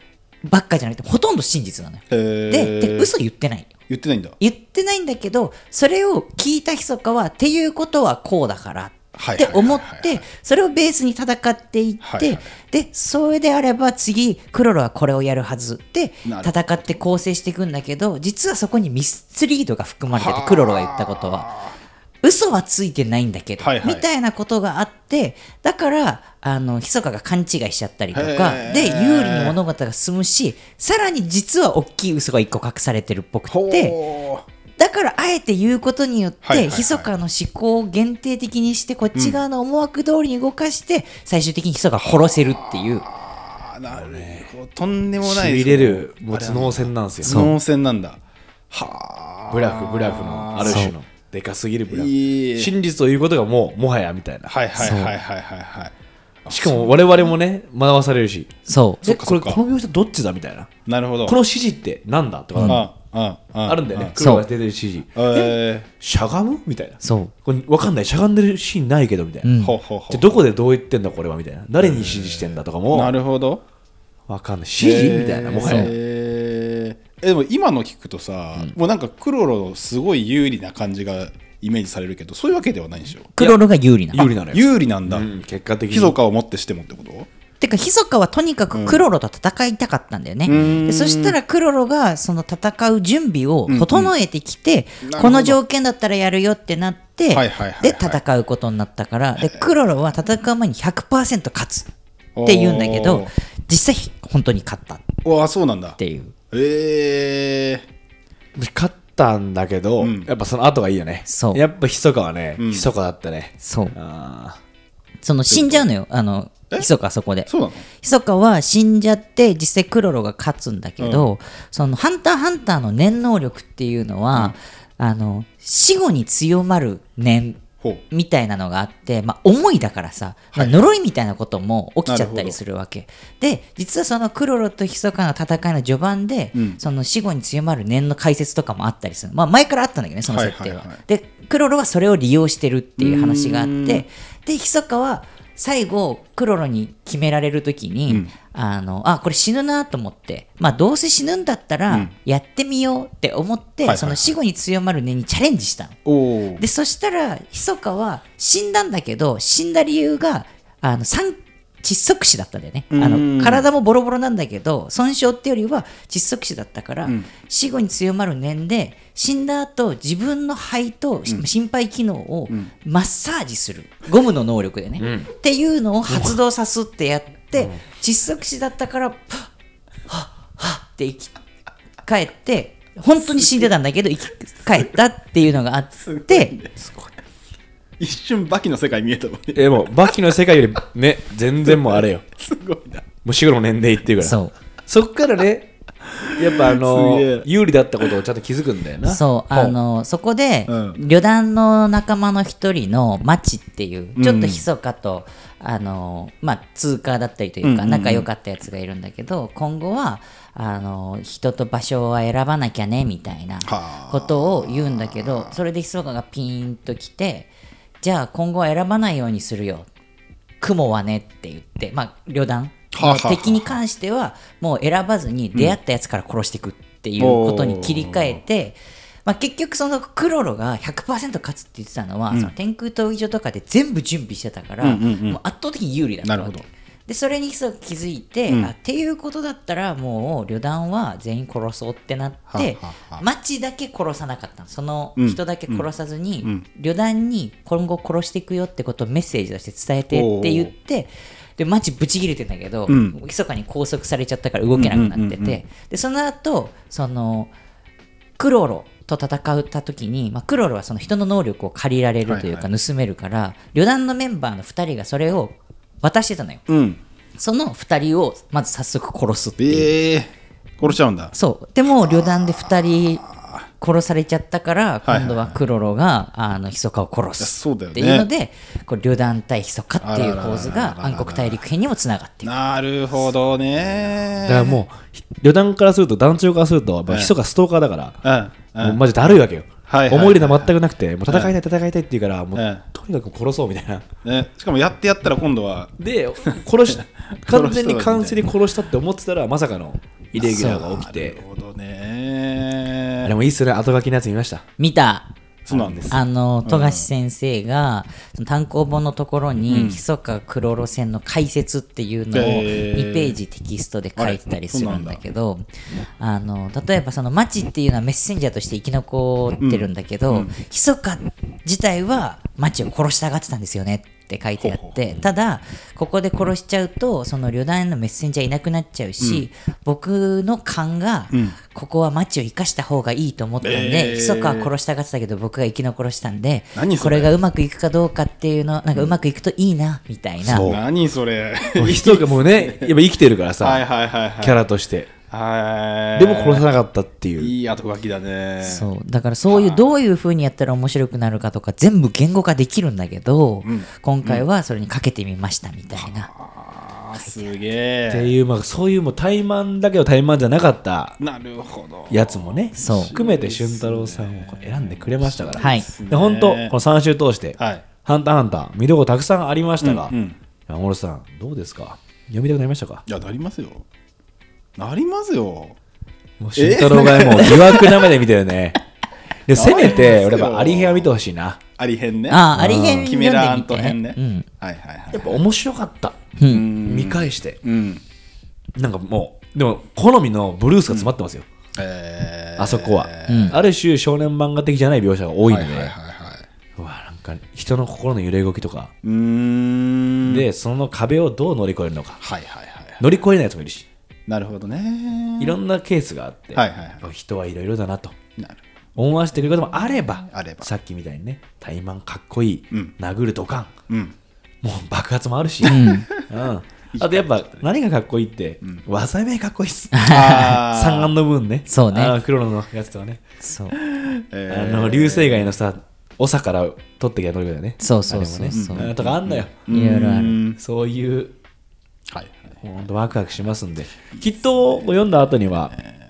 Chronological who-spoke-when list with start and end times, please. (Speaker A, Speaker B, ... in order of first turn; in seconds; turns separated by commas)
Speaker A: 0.5-3.7, Speaker B: 2.1-3.1, Speaker B: 3.9-4.4, Speaker A: 4.4-21.5, Speaker B: 9.2-10.2, Speaker B: 12.0-12.5, Speaker B: 16.2-17.0, Speaker B: 20.1-21.8, Speaker A: 22.2-34.0, Speaker B: 23.6-24.1, Speaker B: 28.1-29.6, Speaker B: 33.5-34.5, Speaker A: 34.8-43.1, Speaker B: 36.4-37.1, Speaker B: 39.1-39.4, Speaker B: 42.0-48.2, Speaker C: 43.9-44.5, Speaker C: 45.2-47.5, Speaker A: 47.2-47.5, Speaker B: 48.7-50.9, Speaker C: 49.5-54.6, Speaker A: 50.6-51.0, Speaker B: 51.9-52.7, Speaker B: 54.5-55.9, Speaker A: 54.8-55.1, Speaker B: 56.5-57.0, Speaker C: 56.5-60.7, Speaker A: 58.7-59.1, Speaker B: 59.0-59.6, Speaker B: 60.9-61.4, Speaker C: 61.3-62.9, Speaker A: 62.5-62.8, Speaker B: 62.6-64.2, Speaker C: 63.6-69.5, Speaker A: 64.2-64.5, Speaker B: 65.2-65.9, Speaker A: 67.0-67.3, Speaker A: 69.4-69.8, Speaker B: 69.6-70.4, Speaker C: 70.1-73.1, Speaker B: 71.8-73.6, Speaker C: 74.3-75.9, Speaker B: 74.8-83.3, Speaker A: 75.6-75.9, Speaker A: 83.3-84.3, Speaker C: 84.1-86.2, Speaker B: 84.5-85.3, Speaker B: 85.9-87.3, Speaker A: 87.6-101.9, Speaker B: 88.7-89.0, Speaker B: 90.5-91.4, Speaker B: 93.7-94.1, Speaker B: 95.0-95.6, Speaker B: 97.3-98.2, Speaker B: 102.4-103.3, Speaker A: 102.5-105.1, Speaker B: 105.2-106.0, Speaker A: 106.0-106.3, Speaker B: 106.5-107.8, Speaker C: 108.5-114.6, Speaker B: 110.0-110.3, Speaker A: 111.3-111.6, Speaker B: 112.6-112.9, Speaker A: 113.6-114.0, Speaker A: 115.2-156.0, Speaker B: 115.5-115.9, Speaker B: 117.5-117.9, Speaker B: 121.0-121.3, Speaker B: 130.5-130.9, Speaker B: 132.1-132.6, Speaker B: 136.6-136.8, Speaker B: 140.3-141.0, Speaker B: 143.0-144.1, Speaker B: 153.8-154.3, Speaker B: 156.1-156.6, Speaker A: 156.6-179.5, Speaker B: 162.9-163.7, Speaker C: 175.0-175.3, Speaker C: 176.1-176.4, Speaker A: 180.1-181.3, Speaker A: 182.0-186.6, Speaker B: 183.4-183.7, Speaker B: 186.1-186.8, Speaker C: 186.8-187.1, Speaker B: 188.0-190.2, Speaker C: 189.5-192.2, Speaker B: 191.7-193.1, Speaker C: 193.2-199.8, Speaker A: 194.2-194.5, Speaker B: 196.2-197.5, Speaker A: 199.1-217.5, Speaker B: 200.7-201.0, Speaker B: 204.2-204.7, Speaker B: 207.6-208.3, Speaker B: 213.7-215.6, Speaker A: 218.0-219.9, Speaker A: 220.6-257.5, Speaker B: 222.9-223.7, Speaker B: 227.2-228.4, Speaker B: 234.8-235.4, Speaker B: 236.2-236.7, Speaker B: 242.5-243.2, Speaker B: 245.2-245.9, Speaker B: 250.1-250.7, Speaker B: 252.9-253.2, Speaker B: 254.7-255.6, Speaker A: 258.4-266.6, Speaker B: 262.3-262.7, Speaker B: 266.7-267.0, Speaker A: 267.4-269.9, Speaker B: 269.6-271.3, Speaker A: 270.9-273.2, Speaker B: 271.9-273.7, Speaker A: 273.8-282.5, Speaker B: 275.1-275.6, Speaker B: 277.4-278.3, Speaker B: 280.0-281.6, Speaker B: 282.4-284.8, Speaker C: 284.4-288.2, Speaker B: 287.1-287.3, Speaker B: 288.2-289.1, Speaker C: 288.8-294.1, Speaker B: 289.9-290.7, Speaker B: 291.3-291.5, Speaker B: 292.6-292.8, Speaker B: 294.2-298.5, Speaker C: 296.0-301.4, Speaker A: 300.4-300.9, Speaker B: 300.4-303.3, Speaker C: 303.2-304.6, Speaker A: 304.8-305.3, Speaker B: 305.7-307.1, Speaker C: 305.7-306.2, Speaker A: 306.1-315.6, Speaker B: 309.7-310.0, Speaker B: 312.3-313.4, Speaker B: 314.2-315.2, Speaker A: 316.2-340.7, Speaker B: 319.6-320.5, Speaker B: 324.6-325.0, Speaker B: 329.2-329.5, Speaker B: 331.3-331.6, Speaker B: 333.6-334.7, Speaker B: 336.8-337.3, Speaker C: 340.4-340.8, Speaker B: 340.5-342.9, Speaker C: 341.8-343.9, Speaker B: 343.6-344.6, Speaker C: 344.4-345.1, Speaker B: 345.3-346.7, Speaker C: 346.2-347.5, Speaker B: 347.4-348.9, Speaker A: 348.6-356.3, Speaker B: 349.5-349.9, Speaker B: 353.6-354.4, Speaker B: 355.9-358.3, Speaker A: 357.2-357.5, Speaker C: 358.1-361.2, Speaker B: 361.2-366.8, Speaker C: 362.1-370.1, Speaker A: 362.8-363.2, Speaker A: 365.6-365.9, Speaker B: 367.6-367.9, Speaker B: 369.8-370.4, Speaker C: 370.7-373.0, Speaker B: 373.1-373.9, Speaker B: 374.8-375.8, Speaker C: 376.4-378.8, Speaker B: 376.6-378.1, Speaker C: 379.5-381.6, Speaker B: 379.5-381.1, Speaker B: 381.8-385.4, Speaker A: 382.3-384.5, Speaker C: 382.6-383.1, Speaker C: 385.1-387.6, Speaker A: 386.4-386.7, Speaker B: 386.5-388.0, Speaker C: 388.8-391.5, Speaker B: 391.8-393.6, Speaker C: 392.6-395.9, Speaker A: 393.3-393.6, Speaker B: 395.5-396.5, Speaker C: 396.8-398.9, Speaker B: 399.0-400.4, Speaker C: 400.2-402.2, Speaker B: 402.2-403.0, Speaker C: 403.0-403.9, Speaker B: 404.3-405.6, Speaker C: 405.4-408.2, Speaker B: 406.6-407.1, Speaker C: 409.0-413.7, Speaker B: 410.3-410.7, Speaker B: 413.9-414.1, Speaker C: 414.6-423.2, Speaker A: 415.6-416.1, Speaker B: 415.6-416.3, Speaker B: 416.9-417.7, Speaker A: 419.9-420.6, Speaker B: 420.1-421.1, Speaker A: 421.7-422.2, Speaker A: 423.4-423.8, Speaker B: 423.9-425.6, Speaker C: 424.5-429.5, Speaker A: 427.8-428.9, Speaker B: 428.5-430.6, Speaker A: 429.7-430.4, Speaker C: 430.6-431.4, Speaker B: 432.1-432.6, Speaker C: 432.6-435.8